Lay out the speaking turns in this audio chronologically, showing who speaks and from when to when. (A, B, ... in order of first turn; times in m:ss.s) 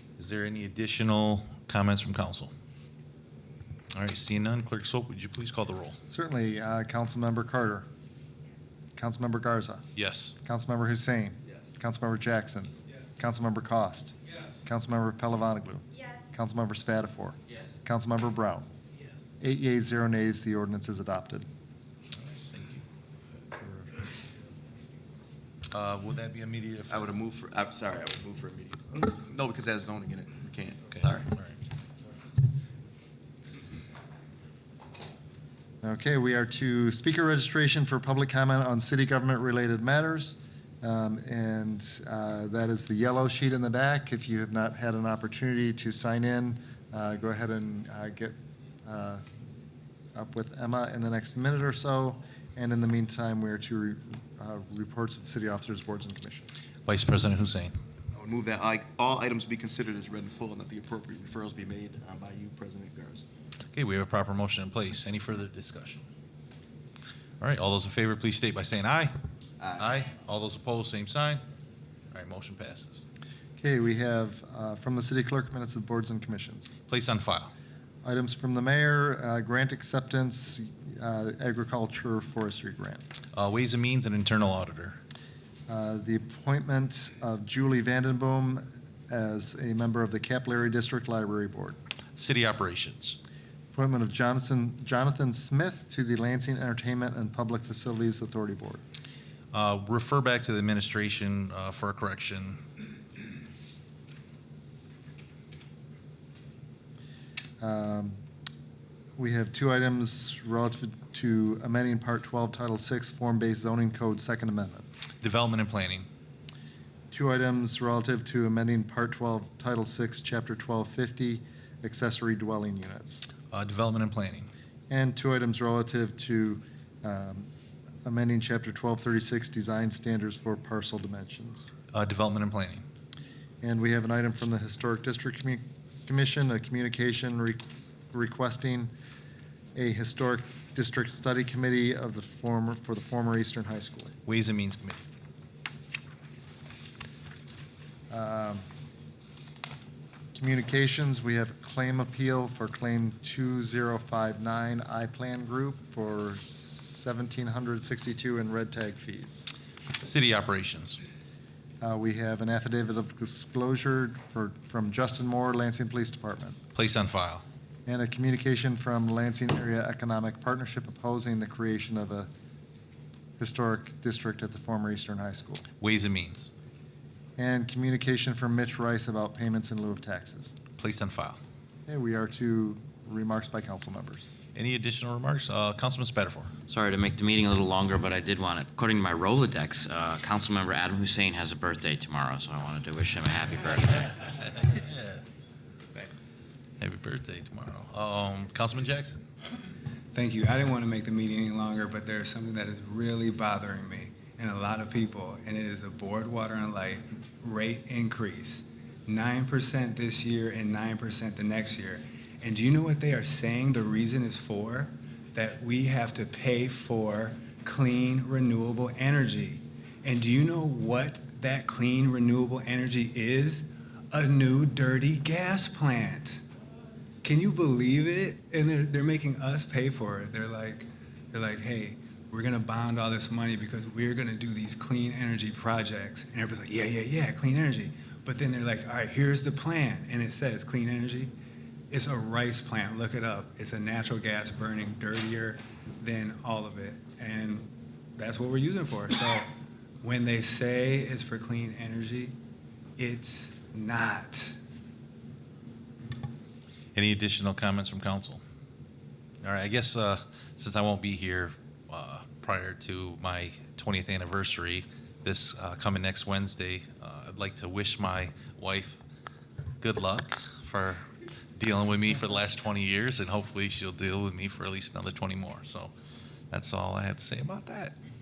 0:00.2-0:02.5 A
0:03.9-0:06.0 A
0:06.1-0:07.9 B
0:09.0-0:09.8 B
0:10.0-0:10.3 A
0:10.4-0:14.1 B
0:14.6-0:18.7 B
0:19.4-0:21.5 B
0:22.2-0:22.8 A
0:23.5-0:23.9 B
0:25.7-0:27.1 A
0:26.9-0:31.3 C
0:30.9-0:31.6 A
0:35.8-0:49.2 B
0:50.1-0:56.5 B
0:56.9-0:57.8 A
0:58.2-1:03.2 C
1:03.7-1:06.0 A
1:07.4-1:09.1 A
1:09.6-1:09.9 C
1:09.8-1:11.4 A
1:12.1-1:13.0 A
1:13.6-1:16.7 B
1:16.9-1:17.5 A
1:18.0-1:23.0 B
1:23.3-1:25.0 A
1:25.7-1:31.8 B
1:32.2-1:33.2 A
1:33.7-1:38.8 B
1:39.5-1:42.6 A
1:47.6-1:48.2 B
1:49.2-1:54.9 B
1:55.2-1:56.1 A
1:57.1-2:03.2 B
2:03.5-2:04.5 A
2:04.9-2:07.5 B
2:08.0-2:11.7 B
2:11.9-2:12.8 A
2:13.6-2:18.9 B
2:19.8-2:24.1 B
2:24.3-2:25.0 A
2:28.1-2:28.6 B
2:30.4-2:39.5 B
2:40.0-2:41.0 A
2:41.8-2:46.6 B
2:46.8-2:47.4 A
2:47.9-2:52.3 B
2:53.4-2:55.6 B
2:55.8-2:56.5 A
2:57.4-3:00.6 B
3:00.8-3:01.4 A
3:01.9-3:04.3 B
3:04.6-3:06.5 A
3:06.7-3:14.0 D
3:14.6-3:15.2 A
3:16.8-3:19.2 A
3:20.1-3:46.4 E
3:47.2-4:01.3 E
4:01.9-4:09.5 E
4:10.0-4:12.3 E
4:13.0-4:14.6 E
4:17.0-4:18.4 A
4:19.4-4:29.0 A
4:29.8-4:31.0 A
4:31.6-4:35.9 A
4:36.5-4:38.0 A